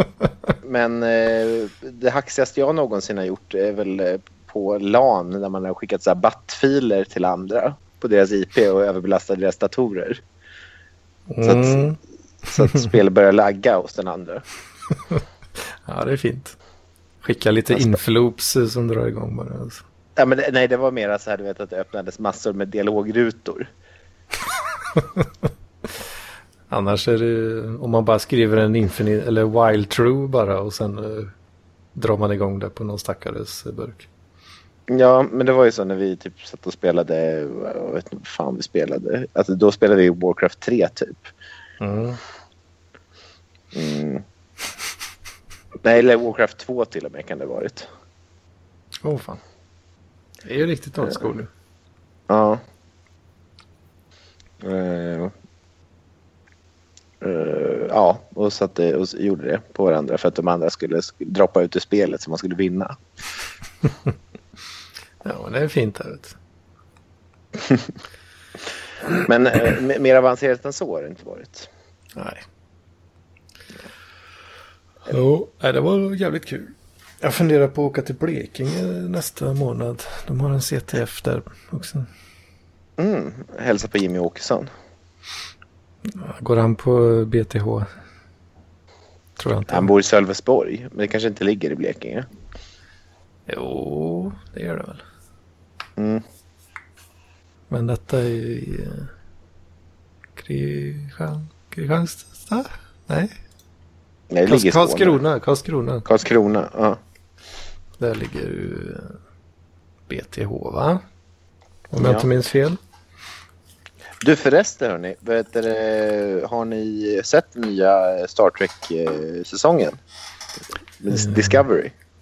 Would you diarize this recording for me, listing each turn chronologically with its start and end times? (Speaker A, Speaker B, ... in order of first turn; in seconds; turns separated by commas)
Speaker A: 0.6-10.2, Speaker B: 11.3-12.0, Speaker A: 11.4-11.9, Speaker A: 12.5-14.4, Speaker B: 12.6-12.9, Speaker B: 15.8-16.5, Speaker B: 17.2-19.8, Speaker A: 17.7-17.9, Speaker A: 20.1-23.7, Speaker B: 26.7-31.3, Speaker B: 31.9-34.1, Speaker A: 34.9-41.3, Speaker B: 41.8-42.2, Speaker A: 43.7-44.2, Speaker A: 45.8-47.9, Speaker B: 49.0-49.4, Speaker B: 50.4-51.5, Speaker A: 52.3-52.6, Speaker A: 54.6-55.3, Speaker A: 57.2-62.9, Speaker B: 65.2-66.3, Speaker A: 69.2-71.7, Speaker B: 72.2-72.4, Speaker B: 75.0-82.1, Speaker A: 83.0-84.7, Speaker B: 86.1-87.9, Speaker B: 89.4-89.9, Speaker A: 89.7-92.2, Speaker B: 93.5-95.0, Speaker A: 96.0-96.2, Speaker B: 97.7-99.1, Speaker B: 100.3-103.3, Speaker A: 104.3-105.2, Speaker B: 104.5-106.0, Speaker A: 106.0-107.0, Speaker B: 108.0-109.2, Speaker B: 110.1-111.0, Speaker B: 111.9-112.8, Speaker A: 112.0-112.3, Speaker A: 114.2-120.0, Speaker A: 121.0-121.9, Speaker B: 121.1-121.6